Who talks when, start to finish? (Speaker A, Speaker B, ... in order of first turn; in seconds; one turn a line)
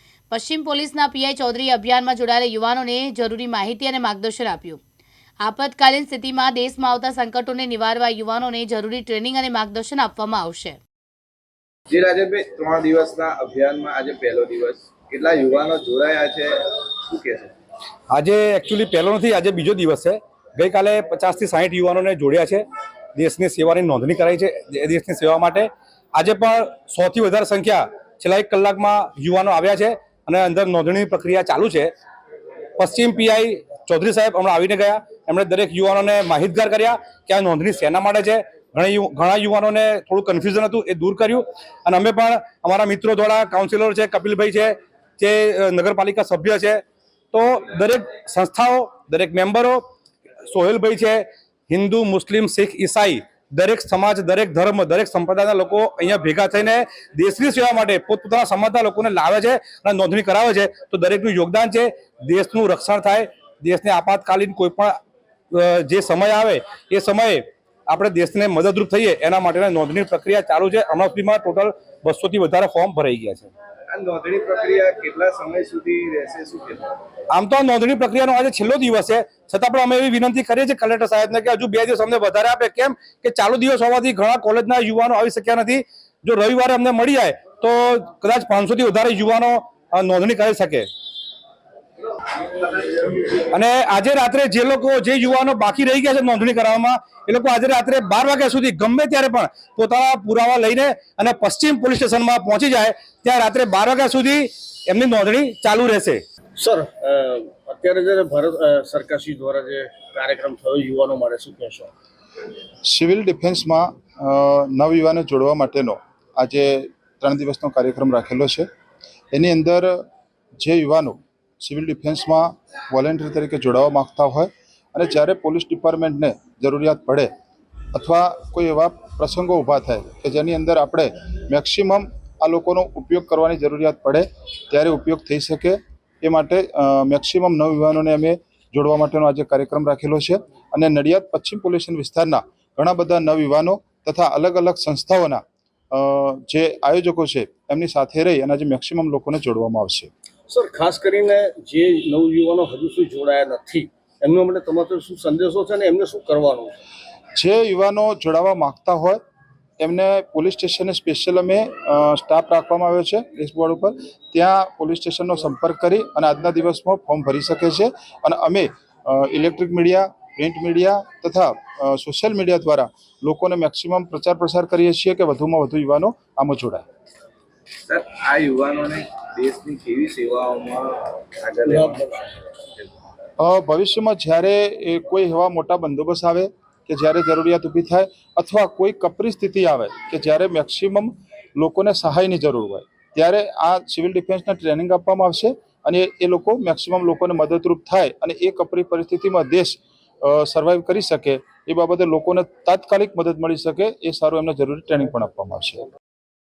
Speaker A: 0.3-4.8
Speaker A: 5.4-10.8
Speaker B: 11.9-17.5
Speaker C: 18.1-22.6
Speaker C: 23.1-31.9
Speaker C: 32.8-46.8
Speaker C: 47.3-49.8
Speaker C: 50.5-65.0
Speaker C: 65.5-73.5
Speaker B: 73.9-77.0
Speaker C: 77.3-90.9
Speaker C: 93.0-106.2
Speaker D: 106.6-111.9
Speaker E: 112.8-118.7
Speaker E: 119.3-120.0
Speaker E: 120.6-127.3
Speaker E: 127.9-145.4
Speaker E: 145.9-150.1
Speaker D: 150.5-156.8
Speaker E: 157.4-159.2
Speaker E: 159.8-176.8
Speaker B: 177.9-182.3
Speaker D: 181.7-182.0
Speaker E: 183.4-205.9